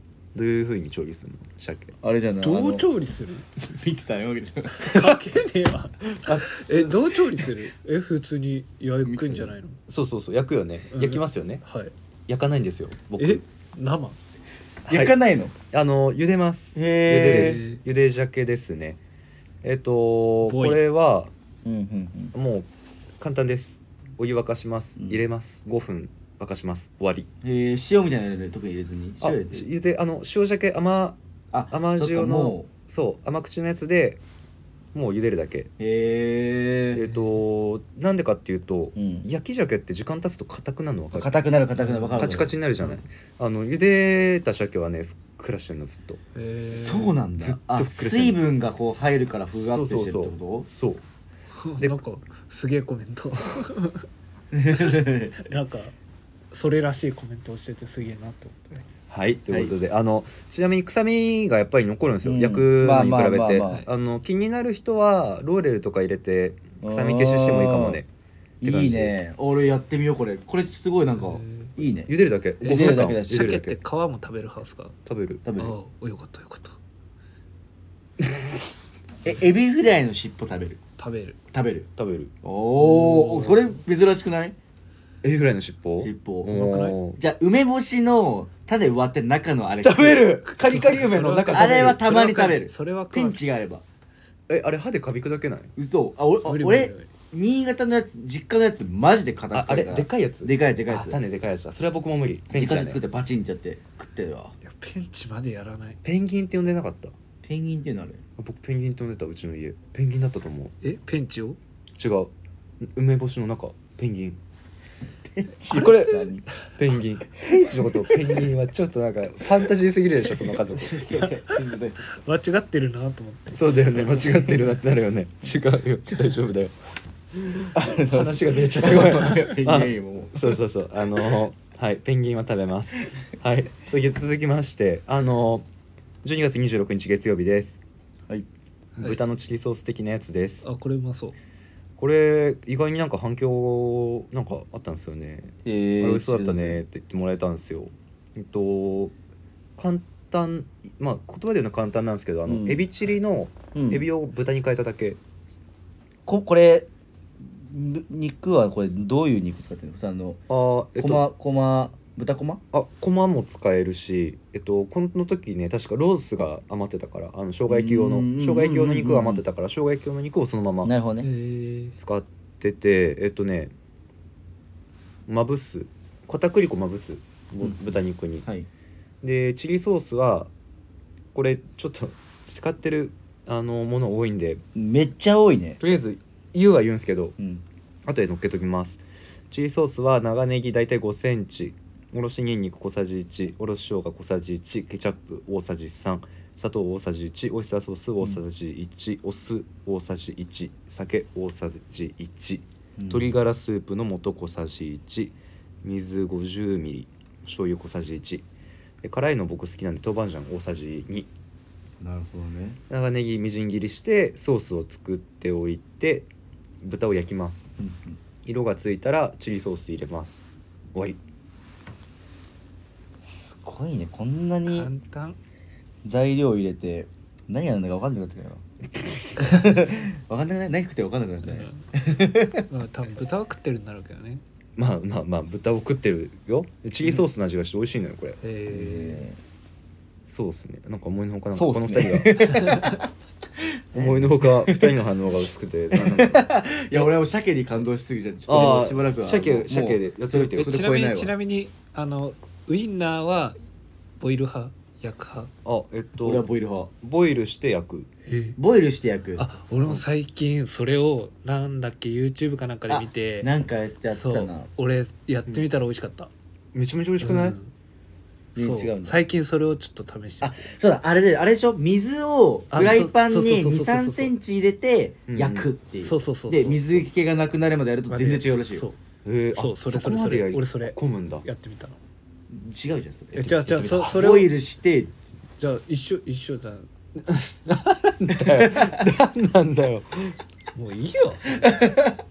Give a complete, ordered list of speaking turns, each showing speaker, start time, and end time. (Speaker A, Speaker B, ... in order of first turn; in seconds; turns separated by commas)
Speaker A: 0.3-1.9, Speaker B: 2.0-2.9, Speaker C: 2.4-3.5, Speaker B: 3.6-5.2, Speaker C: 4.7-9.8, Speaker B: 6.2-6.9, Speaker B: 9.0-9.5, Speaker A: 9.9-11.6, Speaker C: 10.9-11.9, Speaker A: 12.3-13.4, Speaker C: 13.2-14.2, Speaker A: 14.8-15.2, Speaker B: 14.9-15.5, Speaker A: 15.7-19.0, Speaker B: 16.7-17.6, Speaker C: 17.2-17.8, Speaker A: 19.6-21.3, Speaker C: 20.4-20.8, Speaker B: 21.6-22.3, Speaker A: 22.3-22.7, Speaker A: 23.2-27.3, Speaker B: 27.4-29.7, Speaker A: 29.2-31.2, Speaker B: 31.5-32.7, Speaker A: 31.7-34.2, Speaker A: 34.9-35.7, Speaker B: 35.8-37.0, Speaker A: 36.9-41.3, Speaker B: 39.0-39.3, Speaker B: 41.1-42.5, Speaker C: 41.8-42.3, Speaker A: 42.2-46.2, Speaker C: 46.3-47.2, Speaker B: 46.6-50.7, Speaker A: 47.4-48.4, Speaker A: 49.5-51.0, Speaker C: 51.6-54.1, Speaker B: 54.5-55.4, Speaker C: 54.7-55.9, Speaker C: 56.5-58.9, Speaker A: 59.1-68.1, Speaker B: 62.2-63.9, Speaker B: 66.8-68.0, Speaker B: 68.6-73.6, Speaker A: 68.6-69.3, Speaker C: 71.2-71.7, Speaker A: 72.1-73.8, Speaker C: 72.6-75.0, Speaker A: 75.0-75.4, Speaker B: 75.4-75.8, Speaker C: 75.6-76.8, Speaker A: 78.2-78.5, Speaker B: 79.2-80.8, Speaker C: 81.0-81.4, Speaker B: 81.5-81.9, Speaker A: 82.0-82.3, Speaker B: 82.4-84.5, Speaker C: 82.8-83.7, Speaker A: 85.2-87.2, Speaker B: 86.0-86.5, Speaker C: 86.5-87.0, Speaker B: 87.2-90.4, Speaker A: 89.8-92.0, Speaker C: 90.5-93.4, Speaker B: 91.5-93.8, Speaker A: 94.5-95.7, Speaker B: 95.8-101.2, Speaker C: 96.4-97.1, Speaker A: 99.5-103.0, Speaker B: 102.5-104.5, Speaker C: 104.6-106.0, Speaker A: 106.0-107.1, Speaker B: 107.4-108.2, Speaker A: 108.4-110.7, Speaker C: 110.8-111.6, Speaker A: 112.0-114.4, Speaker B: 115.3-116.4, Speaker A: 115.7-121.2, Speaker B: 117.6-118.4, Speaker B: 120.5-122.0, Speaker C: 121.1-124.1, Speaker A: 123.5-126.7, Speaker A: 127.4-135.7, Speaker B: 127.7-130.6, Speaker A: 136.2-137.8, Speaker A: 139.0-140.6, Speaker C: 140.6-141.3, Speaker A: 142.0-149.1, Speaker B: 145.6-146.8, Speaker A: 149.8-155.2, Speaker B: 152.4-152.8, Speaker B: 153.7-154.1, Speaker B: 156.2-156.9, Speaker B: 157.4-160.4, Speaker A: 160.5-161.3, Speaker B: 160.9-162.6, Speaker A: 162.7-170.9, Speaker B: 167.7-169.4, Speaker B: 170.8-171.3, Speaker C: 171.2-171.9, Speaker A: 171.9-173.7, Speaker A: 175.3-178.5, Speaker A: 179.2-180.5, Speaker A: 181.3-184.6, Speaker B: 184.7-185.8, Speaker A: 185.8-187.3, Speaker B: 187.4-187.6, Speaker A: 188.1-208.4, Speaker B: 203.0-203.3, Speaker A: 209.0-211.3, Speaker B: 212.0-212.8, Speaker A: 212.9-216.3, Speaker A: 216.8-217.7, Speaker B: 217.8-218.2, Speaker A: 218.4-221.2, Speaker B: 223.3-224.9, Speaker C: 224.7-225.4, Speaker B: 226.0-232.7, Speaker C: 231.4-231.8, Speaker C: 232.6-234.4, Speaker A: 234.8-238.4, Speaker C: 238.4-239.2, Speaker B: 238.7-239.4, Speaker A: 240.3-242.6, Speaker B: 241.5-243.1, Speaker C: 242.5-243.0, Speaker B: 243.6-245.0, Speaker A: 243.9-246.5, Speaker B: 245.9-251.3, Speaker A: 248.5-250.8, Speaker C: 250.6-253.6, Speaker C: 254.2-255.5, Speaker A: 255.6-256.4, Speaker B: 256.2-256.9, Speaker A: 257.0-258.1, Speaker C: 258.2-258.6, Speaker B: 258.6-259.5, Speaker C: 259.4-263.5, Speaker B: 262.9-264.7, Speaker C: 264.1-266.3, Speaker A: 266.7-267.6, Speaker C: 267.2-267.7, Speaker B: 268.5-269.2, Speaker C: 268.6-270.7, Speaker B: 270.4-278.9, Speaker C: 272.7-274.3, Speaker A: 275.3-275.7, Speaker C: 276.0-277.0, Speaker C: 278.1-279.0, Speaker A: 279.2-281.4, Speaker C: 279.5-282.0, Speaker B: 282.5-285.2, Speaker C: 283.3-284.5, Speaker C: 285.6-286.9, Speaker A: 287.2-290.4, Speaker B: 288.4-289.0, Speaker C: 290.7-291.7, Speaker B: 291.6-292.2